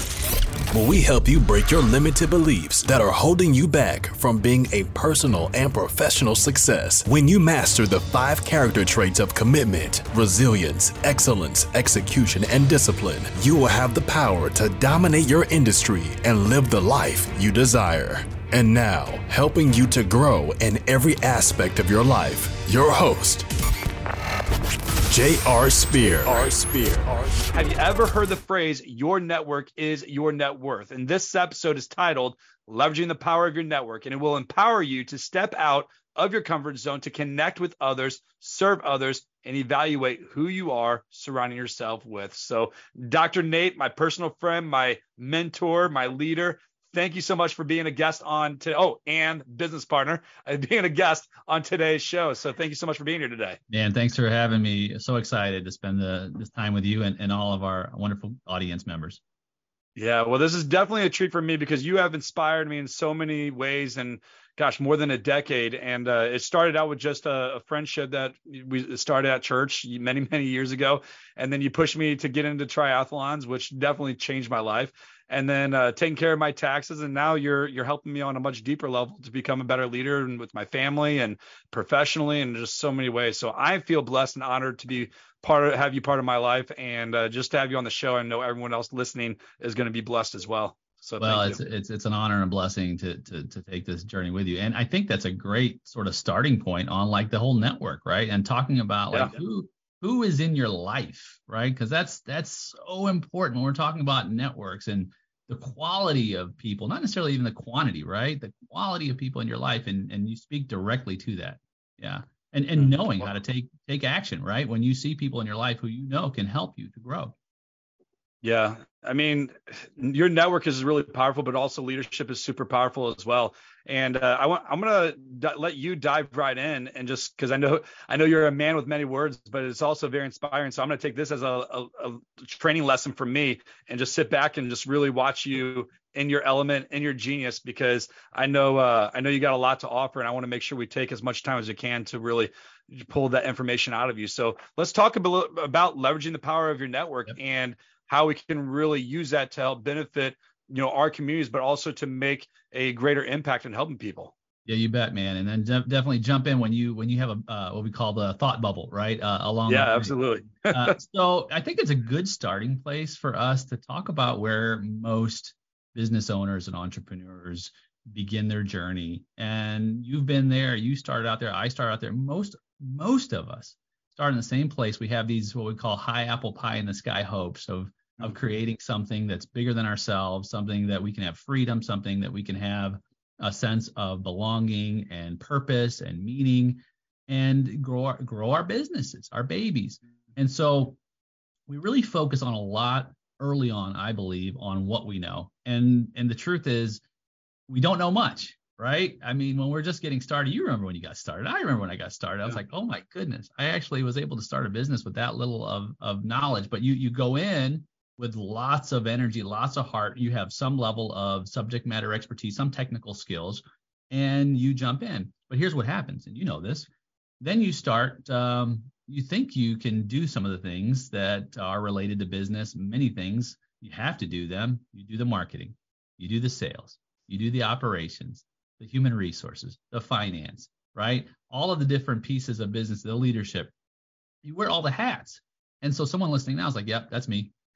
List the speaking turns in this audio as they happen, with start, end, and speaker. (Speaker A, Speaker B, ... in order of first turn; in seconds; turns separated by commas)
Speaker A: 0.7-23.5, Speaker A: 25.1-27.2, Speaker B: 27.5-53.6, Speaker C: 53.7-59.2, Speaker B: 60.0-91.6, Speaker C: 91.2-117.3, Speaker B: 118.4-154.3, Speaker C: 154.7-191.0, Speaker B: 159.7-160.9, Speaker C: 191.7-197.0, Speaker C: 197.7-216.9, Speaker C: 217.4-233.7, Speaker C: 234.4-237.5